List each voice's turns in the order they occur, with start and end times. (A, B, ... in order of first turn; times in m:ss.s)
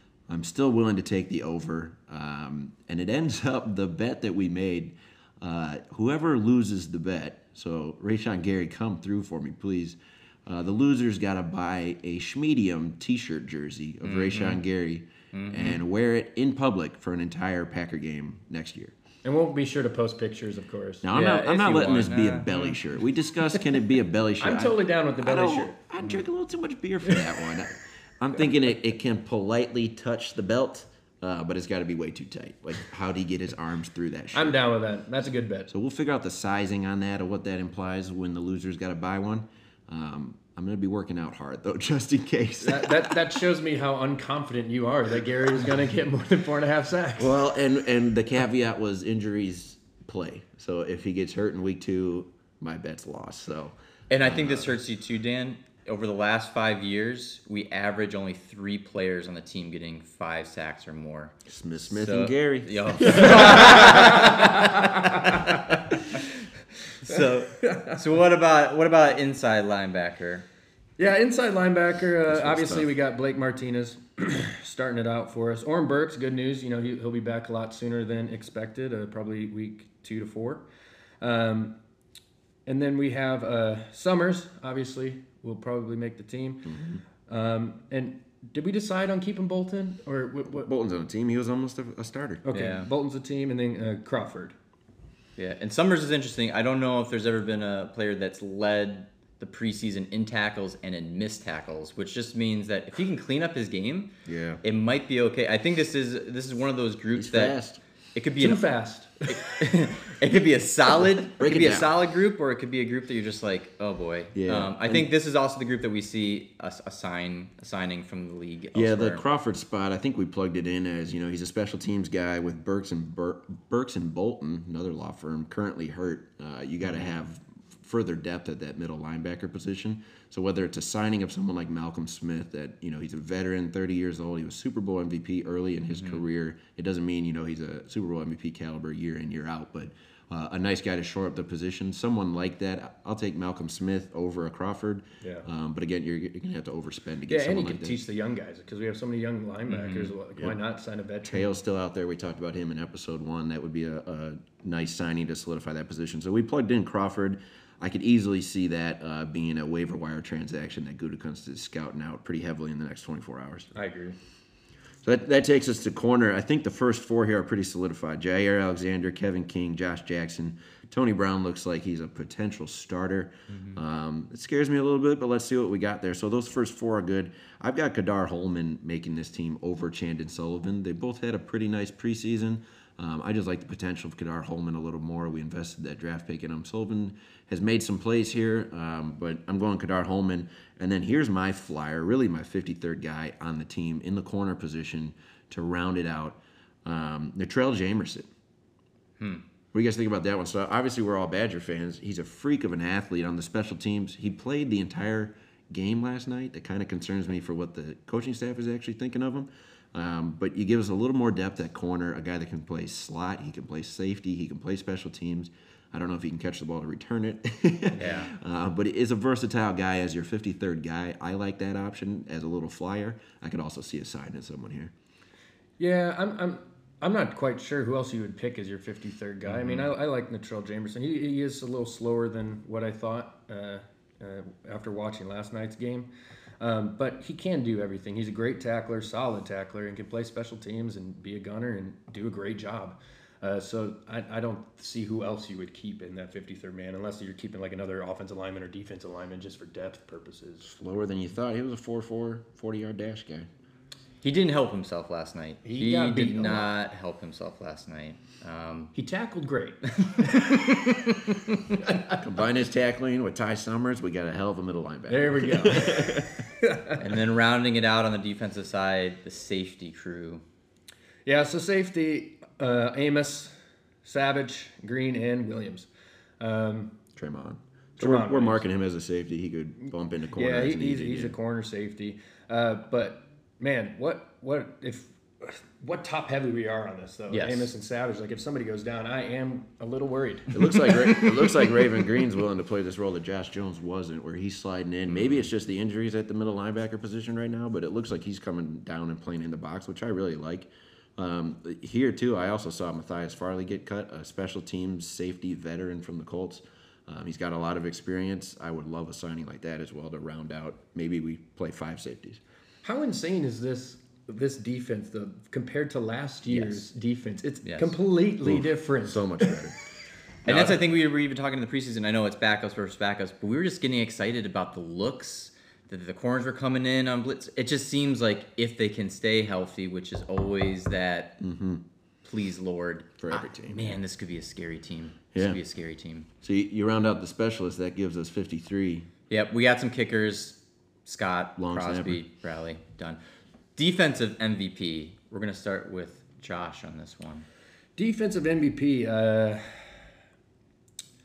0:00.3-0:18.9 A
0:14.0-0:14.6 B
0:15.3-0:15.8 B
0:19.2-0:21.0 C
0:21.0-0:34.6 A
0:21.1-0:22.6 B
0:24.4-0:25.8 C
0:34.3-0:35.7 C
0:35.7-0:43.3 A
0:42.6-0:47.4 C
0:47.2-0:54.7 A
0:54.1-1:01.3 B
1:01.4-1:04.2 A
1:01.9-1:05.3 B
1:03.2-1:04.4 C
1:07.0-1:10.4 B
1:07.6-1:07.9 C
1:11.0-1:20.6 C
1:12.3-1:12.9 A
1:21.2-1:21.8 C
1:22.6-1:26.8 C
1:26.6-1:27.0 A
1:27.3-1:30.7 C
1:30.6-1:32.4 A
1:32.4-1:34.6 C
1:32.5-1:32.9 B
1:35.4-1:44.1 B
1:44.2-1:44.6 A
1:44.6-1:47.6 B
1:47.2-1:47.8 A
1:48.1-1:48.6 B
1:48.4-1:49.6 C
1:49.3-1:59.2 B
1:51.4-1:51.9 A
1:54.3-1:55.1 A
1:58.7-2:28.0 A
2:25.2-2:25.4 C
2:27.3-2:31.5 C
2:29.7-2:30.1 B
2:31.2-2:43.7 A
2:43.7-2:44.2 C
2:45.0-3:18.3 A
2:53.5-2:53.8 B
3:19.7-3:44.9 A
3:38.0-3:38.3 B
3:45.8-3:56.1 C
3:56.6-4:10.7 C
4:10.6-4:13.5 A
4:14.2-4:18.9 B
4:15.6-4:16.7 C
4:18.9-4:20.3 C
4:20.1-4:21.8 B
4:22.1-4:26.4 A
4:25.1-4:27.0 C
4:27.0-4:30.4 B
4:31.2-4:33.5 C
4:34.0-4:35.9 C
4:36.4-4:37.0 C
4:37.2-4:41.3 A
4:38.0-4:38.7 C
4:40.4-4:51.6 C
4:47.3-4:47.7 B
4:50.5-5:12.4 A
5:12.8-5:19.7 C
5:17.6-5:18.0 B
5:18.4-5:19.8 A
5:20.4-5:31.4 B
5:20.5-5:20.7 A
5:31.4-5:31.8 A
5:32.2-5:36.3 B
5:33.2-5:34.0 A
5:35.3-5:35.6 A
5:36.4-5:39.1 A
5:39.3-5:43.2 B
5:41.6-5:42.2 A
5:43.8-5:47.4 B
5:48.0-5:50.1 C